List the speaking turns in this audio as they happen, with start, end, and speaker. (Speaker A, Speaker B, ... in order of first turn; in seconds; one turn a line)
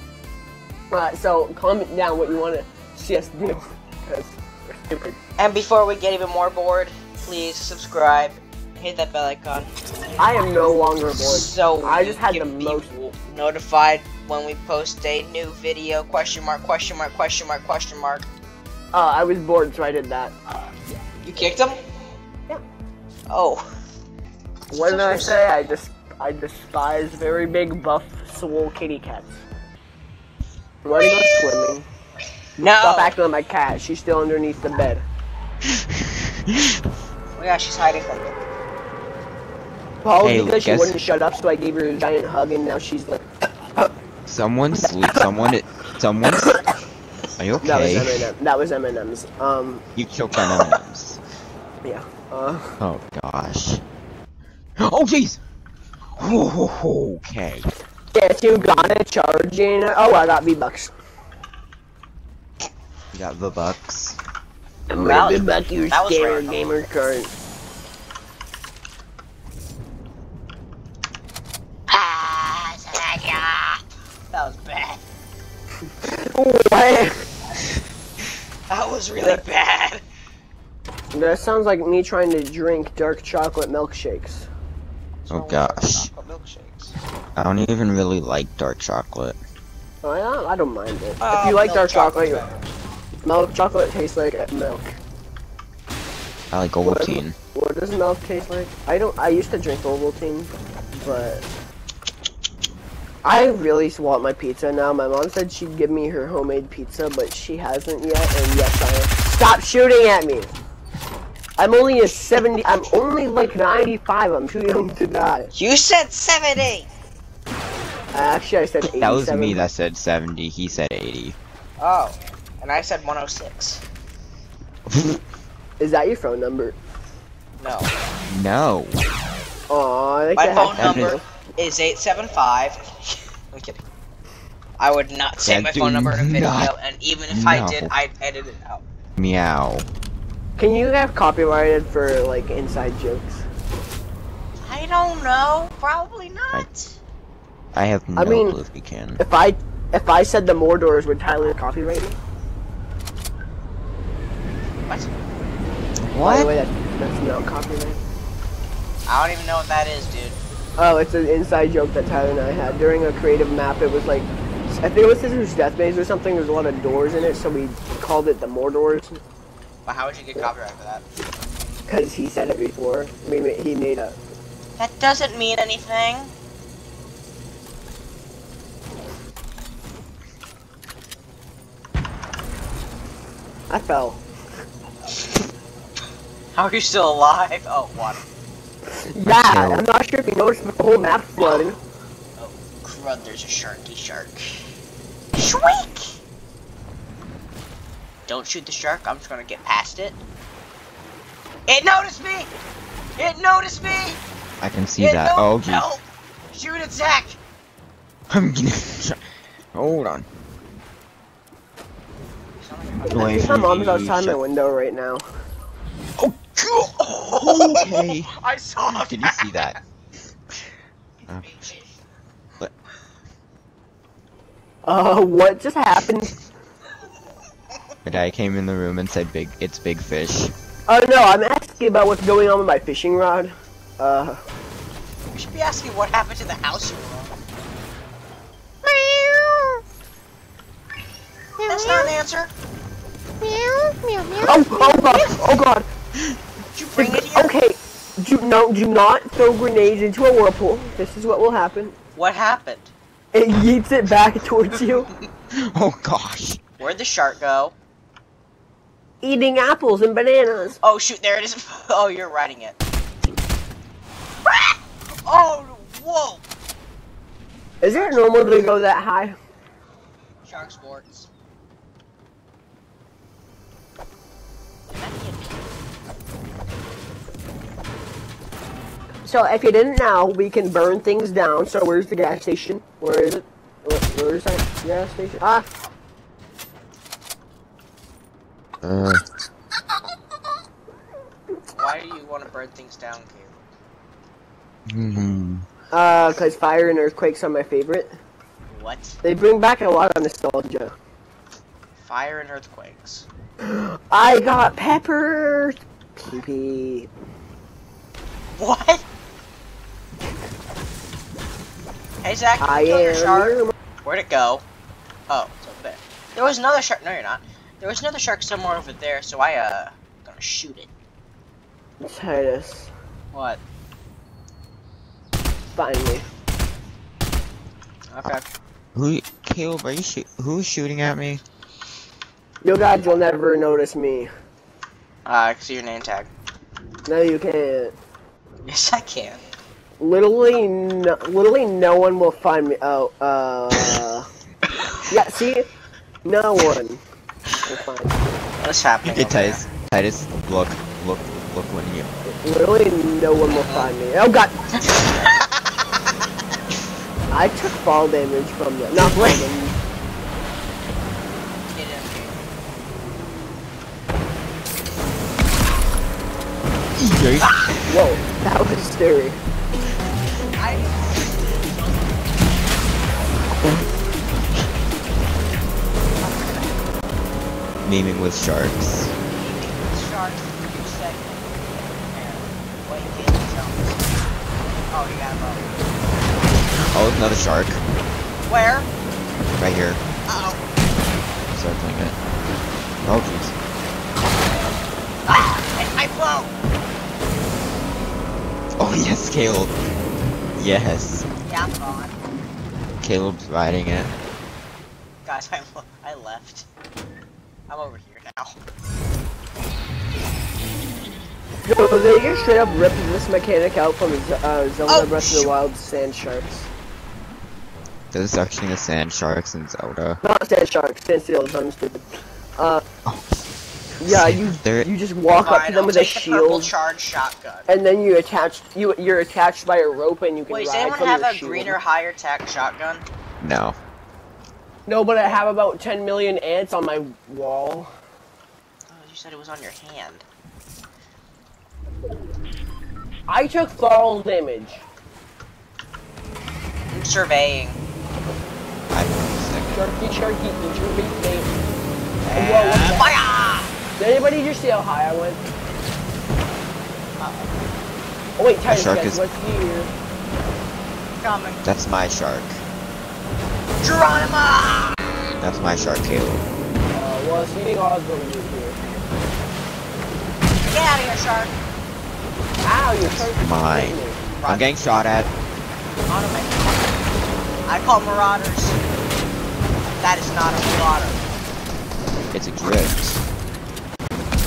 Speaker A: 0.9-5.2
Speaker B: 5.4-9.7
Speaker A: 10.2-12.9
Speaker B: 11.2-18.3
Speaker A: 18.9-20.4
Speaker B: 21.2-21.8
Speaker B: 23.3-23.6
Speaker B: 24.7-25.4
Speaker A: 24.7-29.4
Speaker A: 30.8-31.9
Speaker B: 31.0-31.3
Speaker B: 32.6-33.2
Speaker A: 32.8-35.0
Speaker C: 35.7-36.8
Speaker B: 37.4-38.4
Speaker A: 40.0-43.2
Speaker C: 40.2-41.0
Speaker C: 44.3-46.5
Speaker A: 44.8-45.3
Speaker A: 46.3-46.8
Speaker C: 47.4-48.3
Speaker A: 47.6-49.8
Speaker C: 50.0-51.2
Speaker A: 51.8-52.8
Speaker C: 52.8-53.8
Speaker C: 54.8-55.4
Speaker C: 56.2-57.7
Speaker A: 58.1-60.9
Speaker C: 63.1-64.2
Speaker A: 64.9-67.3
Speaker B: 65.0-66.7
Speaker B: 71.9-73.8
Speaker B: 74.3-75.0
Speaker A: 76.0-77.1
Speaker B: 78.7-80.0
Speaker A: 81.1-84.5
Speaker B: 85.2-87.0
Speaker C: 85.3-86.1
Speaker C: 87.4-89.4
Speaker A: 90.0-92.5
Speaker B: 91.2-92.5
Speaker A: 93.2-95.0
Speaker C: 96.5-97.3
Speaker A: 96.8-101.4
Speaker A: 103.2-110.5
Speaker A: 111.6-115.5
Speaker B: 115.5-116.9
Speaker A: 118.1-119.7
Speaker C: 118.8-121.4
Speaker B: 121.8-123.8
Speaker C: 124.9-125.2
Speaker A: 125.8-126.8
Speaker B: 127.6-127.9
Speaker C: 128.3-129.0
Speaker A: 129.7-131.2
Speaker B: 130.4-133.8
Speaker C: 130.7-131.2
Speaker B: 134.8-138.8
Speaker C: 135.4-136.7
Speaker C: 137.3-137.9
Speaker C: 139.2-139.9
Speaker A: 140.6-143.5
Speaker B: 144.6-147.0
Speaker C: 147.7-149.2
Speaker A: 148.2-148.6
Speaker A: 149.2-152.2
Speaker B: 154.9-155.1
Speaker C: 156.1-156.5
Speaker A: 156.2-158.0
Speaker B: 159.1-160.4
Speaker A: 160.8-169.2
Speaker B: 169.8-171.1
Speaker A: 171.9-174.2
Speaker B: 174.8-176.3
Speaker A: 183.7-184.2
Speaker B: 186.6-188.2
Speaker A: 189.1-191.8
Speaker C: 189.3-189.8
Speaker B: 192.4-194.5
Speaker B: 195.3-196.2
Speaker B: 198.3-200.2
Speaker B: 201.7-202.5
Speaker B: 203.2-204.2
Speaker C: 204.6-205.9
Speaker B: 205.0-207.4
Speaker C: 208.3-209.2
Speaker C: 209.7-210.3
Speaker B: 212.6-213.6
Speaker A: 213.1-215.3
Speaker C: 213.1-214.4
Speaker B: 216.2-219.8
Speaker C: 217.4-218.3
Speaker C: 218.9-219.8
Speaker C: 221.3-221.8
Speaker B: 221.5-221.8
Speaker A: 224.8-226.4
Speaker C: 228.1-230.5
Speaker A: 230.9-234.4
Speaker B: 235.3-237.4
Speaker B: 241.7-242.5
Speaker B: 244.2-245.4
Speaker A: 244.4-245.9
Speaker B: 246.7-247.6
Speaker A: 247.0-252.0
Speaker B: 252.2-252.9
Speaker A: 253.3-255.1
Speaker B: 254.7-255.3
Speaker C: 255.5-256.6
Speaker B: 256.8-257.7
Speaker A: 259.2-260.8
Speaker B: 260.8-262.8
Speaker B: 264.5-266.4
Speaker A: 267.8-269.4
Speaker B: 267.9-268.7
Speaker B: 270.4-271.3
Speaker B: 274.9-275.7
Speaker A: 279.2-285.7
Speaker C: 288.8-289.2
Speaker B: 291.7-293.6
Speaker C: 294.9-295.7
Speaker A: 295.9-298.1
Speaker B: 298.7-299.2
Speaker A: 299.2-300.9
Speaker B: 302.0-303.3
Speaker A: 303.6-307.1
Speaker B: 308.5-309.1
Speaker B: 312.2-314.6
Speaker A: 312.6-313.7
Speaker B: 315.3-320.9
Speaker A: 322.0-322.9
Speaker B: 323.3-323.6
Speaker A: 325.8-326.3
Speaker B: 328.1-328.4
Speaker C: 328.9-331.4
Speaker A: 332.6-334.3
Speaker B: 335.3-336.3
Speaker A: 337.1-337.9
Speaker B: 338.7-339.4
Speaker A: 340.0-344.3
Speaker A: 345.1-345.7
Speaker A: 346.2-347.0
Speaker A: 347.6-348.2
Speaker B: 348.6-349.6
Speaker C: 349.1-352.1
Speaker A: 352.3-354.9
Speaker B: 353.5-353.9
Speaker B: 354.8-356.1
Speaker A: 357.3-359.8
Speaker B: 361.7-362.4
Speaker C: 367.0-368.0
Speaker B: 367.4-367.8
Speaker A: 367.9-369.4
Speaker B: 370.6-372.4
Speaker B: 376.2-376.8
Speaker C: 377.8-379.1
Speaker B: 379.3-384.0
Speaker B: 384.9-385.7
Speaker C: 386.8-387.8
Speaker B: 388.5-388.9
Speaker C: 389.6-390.0
Speaker B: 390.3-390.6
Speaker C: 391.5-392.2
Speaker C: 393.0-393.6
Speaker B: 395.3-396.5
Speaker C: 398.8-399.8
Speaker C: 400.6-401.3
Speaker B: 401.4-402.2
Speaker C: 403.0-404.1
Speaker B: 405.2-406.7
Speaker B: 407.7-408.6
Speaker A: 411.7-416.7
Speaker B: 414.9-415.5
Speaker C: 418.1-420.2
Speaker A: 420.2-422.1
Speaker A: 422.6-422.8
Speaker A: 424.0-426.7
Speaker C: 424.1-424.9
Speaker B: 425.3-427.7
Speaker A: 427.7-431.8
Speaker B: 430.5-433.1
Speaker C: 433.4-433.8
Speaker A: 434.9-437.9
Speaker B: 438.9-440.2
Speaker A: 443.3-444.9
Speaker B: 446.9-447.8
Speaker C: 448.9-450.0
Speaker A: 449.7-451.5
Speaker B: 452.2-453.7
Speaker A: 452.3-453.1
Speaker A: 454.0-455.4
Speaker B: 457.2-457.5
Speaker A: 458.4-459.9
Speaker C: 458.7-459.2
Speaker B: 461.2-461.6
Speaker C: 461.6-462.6
Speaker B: 463.8-465.3
Speaker C: 465.4-466.5
Speaker A: 466.9-468.8
Speaker B: 470.7-471.5
Speaker A: 472.6-474.2
Speaker C: 473.0-475.3
Speaker B: 474.4-475.1
Speaker B: 476.1-478.8
Speaker B: 480.0-481.2
Speaker C: 482.3-483.2